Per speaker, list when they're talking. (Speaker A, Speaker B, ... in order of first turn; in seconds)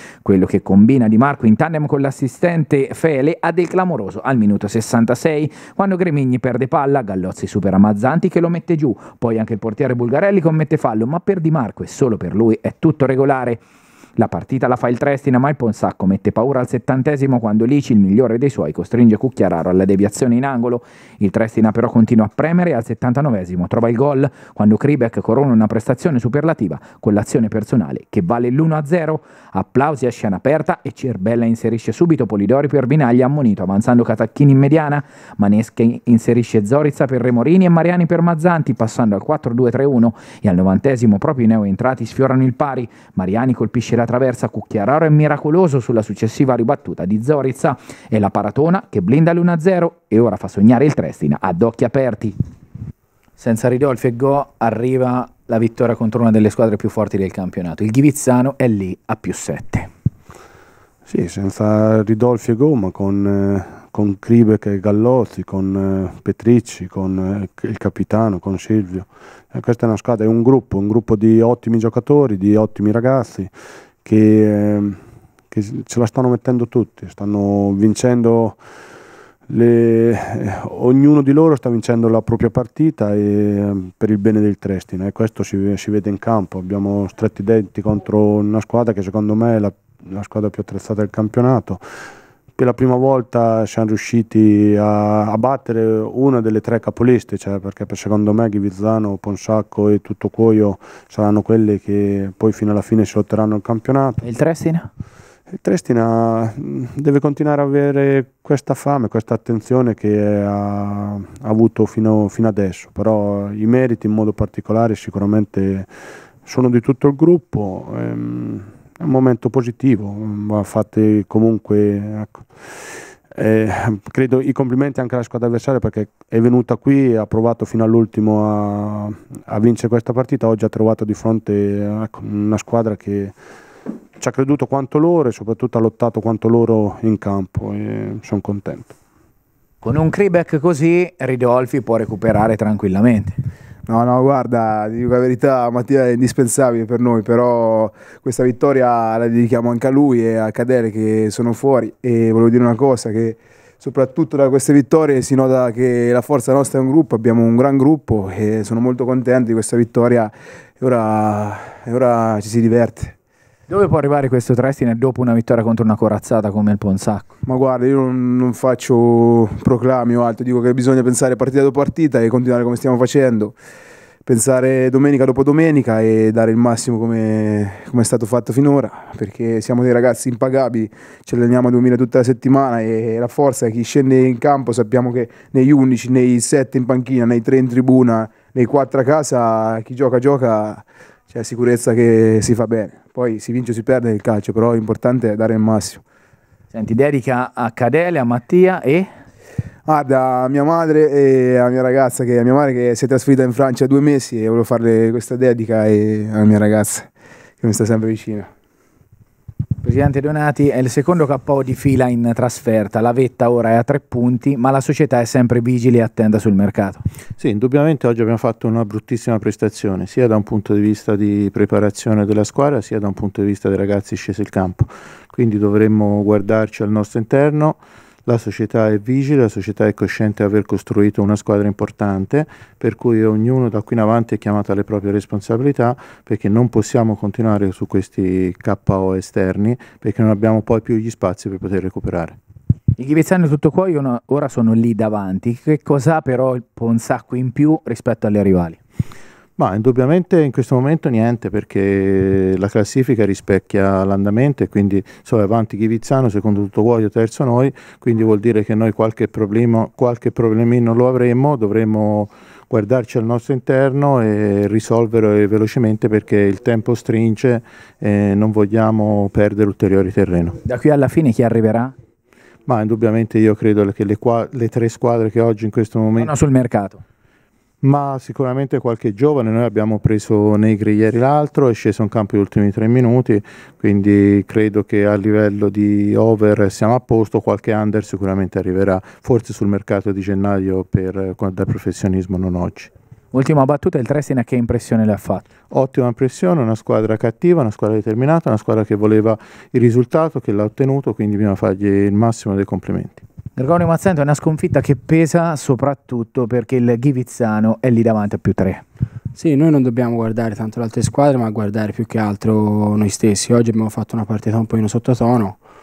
Speaker A: 0.2-13.6, 14.2-52.4, 53.4-59.9, 104.2-104.9, 139.8-143.4, 163.7-167.3, 196.7-199.1, 209.8-217.0, 243.0-248.8, 270.6-271.9, 276.2-277.0, 293.3-295.4, 303.6-308.8
Speaker B: 61.1-73.5, 74.0-75.0, 75.5-78.6, 79.5-91.8, 92.5-104.2, 105.5-115.9, 116.4-133.3, 134.2-138.9
Speaker C: 143.9-163.1, 167.4-173.5, 174.2-196.0, 199.8-207.1, 207.6-208.5
Speaker D: 217.4-242.4, 249.6-270.6, 272.6-276.3, 277.8-292.9, 295.7-303.2
Speaker E: 309.3-315.6